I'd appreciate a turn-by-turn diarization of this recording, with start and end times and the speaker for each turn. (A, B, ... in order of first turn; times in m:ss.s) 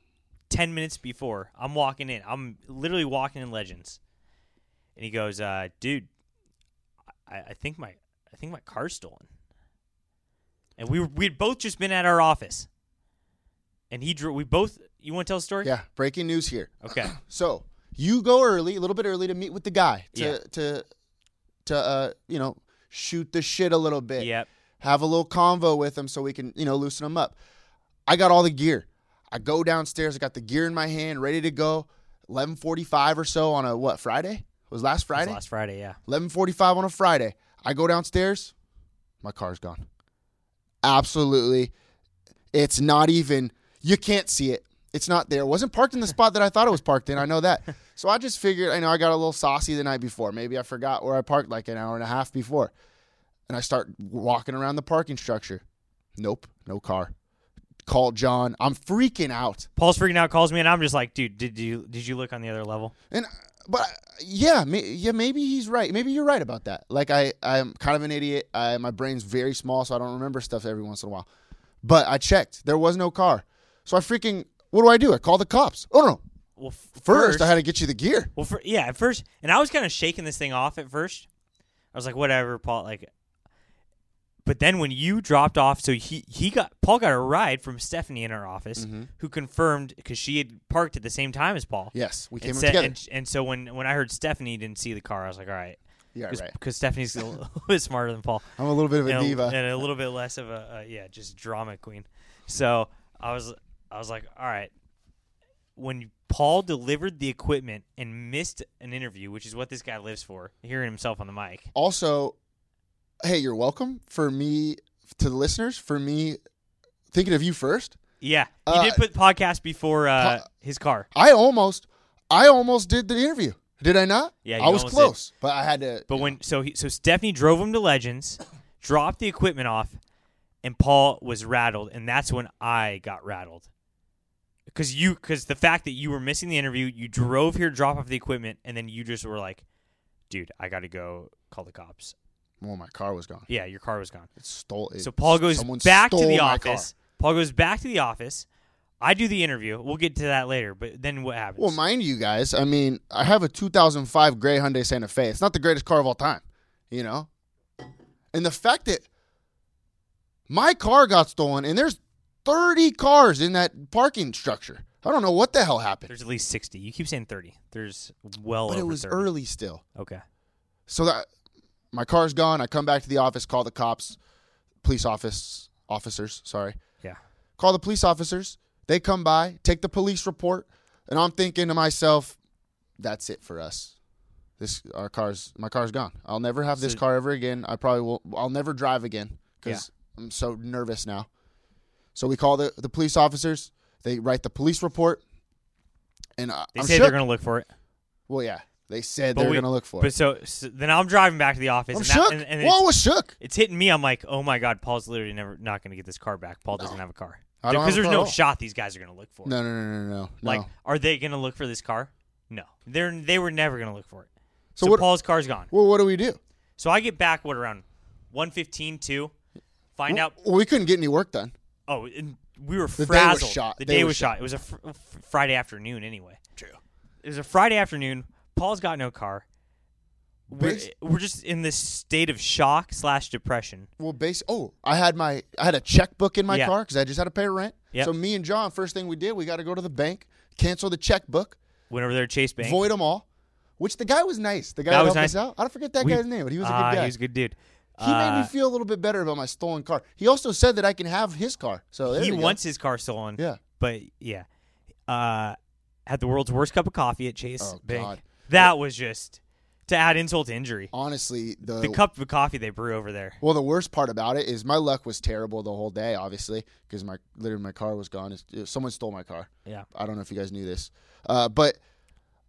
0:00.5-0:04.0 A
0:05.0-0:06.1 A
0:07.3-0:09.3 A
0:10.8-0:12.7 A
0:13.9-0:15.7 A
0:15.6-0:20.8 B
0:16.8-0:17.2 A
0:20.1-0:20.4 A
0:21.6-0:27.4 B
0:24.2-0:24.5 A
0:28.1-0:35.4 B
0:35.2-0:36.0 A
0:36.1-0:38.5 B
0:39.2-0:39.8 B
0:40.8-0:41.7 B
0:42.5-0:52.7 B
0:53.5-0:55.6 B
0:56.2-0:57.1 B
0:57.9-0:59.7 B
0:59.8-1:02.9 A
1:03.1-1:11.3 B
1:11.8-1:16.2 B
1:16.6-1:17.6 A
1:17.0-1:18.3 B
1:18.3-1:21.3 A
1:21.9-1:23.1 A
1:24.4-1:35.8 A
1:28.8-1:29.1 B
1:31.9-1:33.0 B
1:36.1-1:36.6 B
1:36.3-1:38.5 A
1:38.6-1:39.6 B
1:39.0-1:44.7 A
1:45.8-1:51.7 A
1:51.7-1:52.4 B
1:53.2-1:56.4 B
1:57.1-1:58.0 B
1:58.2-2:01.1 A
1:58.6-1:59.1 B
2:01.1-2:06.4 B
2:04.4-2:05.2 A
2:06.1-2:10.0 A
2:10.6-2:13.7 A
2:14.7-2:19.6 A
2:20.3-2:22.1 A
2:22.6-2:23.5 B
2:23.5-2:24.3 A
2:24.4-2:26.9 B
2:25.0-2:28.4 A
2:29.0-2:31.8 A
2:31.6-2:37.3 B
2:38.3-2:39.1 B
2:40.5-2:46.1 B
2:46.1-2:49.3 A
2:48.7-2:49.8 B
2:50.0-2:50.2 A
2:50.9-2:51.2 B
2:51.9-2:54.2 B
2:54.8-2:56.8 B
2:57.6-3:02.4 B
3:03.0-3:04.0 B
3:04.6-3:11.3 B
3:12.1-3:15.2 B
3:16.4-3:17.2 B
3:16.8-3:17.7 A
3:18.3-3:20.1 B
3:19.3-3:22.8 A
3:21.9-3:23.3 B
3:23.4-3:29.6 A
3:27.6-3:28.4 B
3:29.4-3:30.7 B
3:30.4-3:34.3 A
3:34.8-3:35.1 B
3:34.8-3:35.7 A
3:35.7-3:36.4 B
3:36.8-3:39.3 A
3:39.9-3:40.3 A
3:40.1-3:41.5 B
3:41.9-3:46.4 A
3:43.0-3:44.4 B
3:47.2-3:49.4 A
3:50.5-3:53.9 A
3:50.5-3:50.9 B
3:54.0-4:01.6 B
4:01.9-4:02.9 A
4:02.6-4:03.2 B
4:03.8-4:07.1 B
4:04.9-4:05.4 A
4:06.0-4:08.5 A
4:08.0-4:12.6 B
4:12.1-4:14.4 A
4:15.1-4:20.9 A
4:17.6-4:18.6 B
4:20.9-4:22.0 B
4:21.8-4:23.4 A
4:23.4-4:31.8 B